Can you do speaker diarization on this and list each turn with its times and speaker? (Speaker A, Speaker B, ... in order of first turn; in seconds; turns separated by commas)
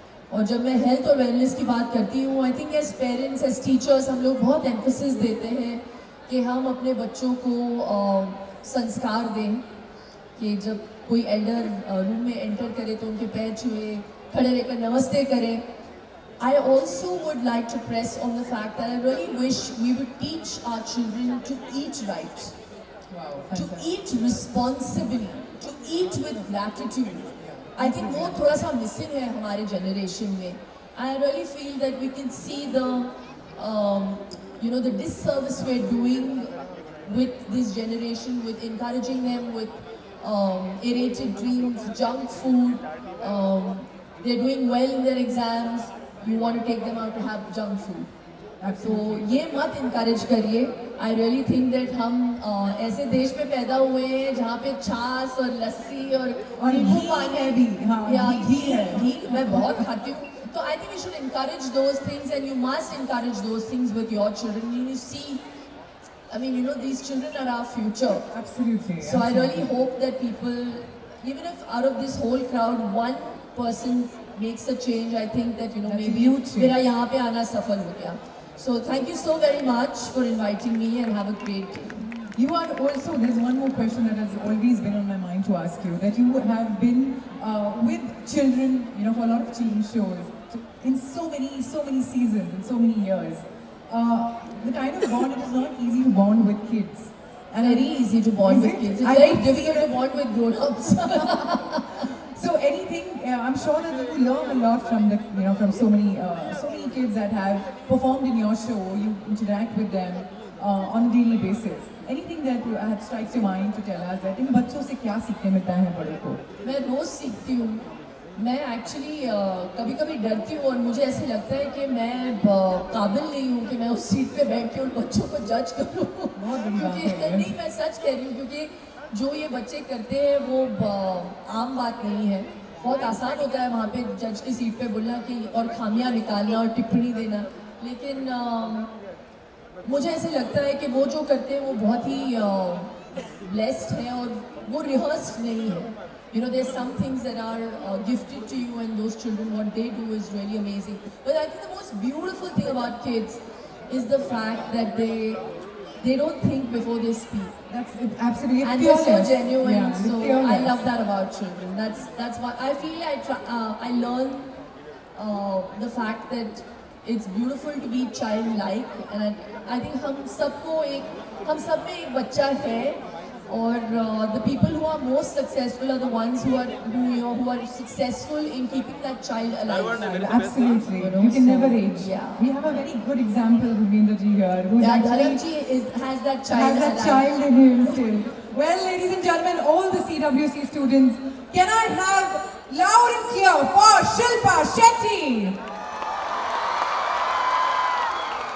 Speaker A: 0.3-9.7, Speaker A: 10.4-15.7, Speaker A: 16.4-22.6, Speaker B: 23.1-23.9, Speaker A: 23.5-48.1, Speaker B: 27.6-28.4, Speaker B: 48.6-49.3, Speaker A: 48.8-65.5, Speaker B: 56.6-59.8, Speaker A: 66.3-68.3, Speaker B: 68.3-69.7, Speaker A: 69.0-82.2, Speaker B: 75.8-76.8, Speaker B: 82.3-99.9, Speaker A: 97.6-102.1, Speaker B: 102.0-116.4, Speaker A: 116.6-138.9, Speaker B: 126.3-127.5, Speaker A: 139.8-155.4, Speaker A: 156.0-157.6, Speaker B: 157.7-160.8, Speaker A: 158.6-164.6, Speaker A: 165.1-180.1, Speaker B: 180.0-185.4, Speaker A: 181.0-182.5, Speaker A: 184.8-187.3, Speaker B: 186.5-195.6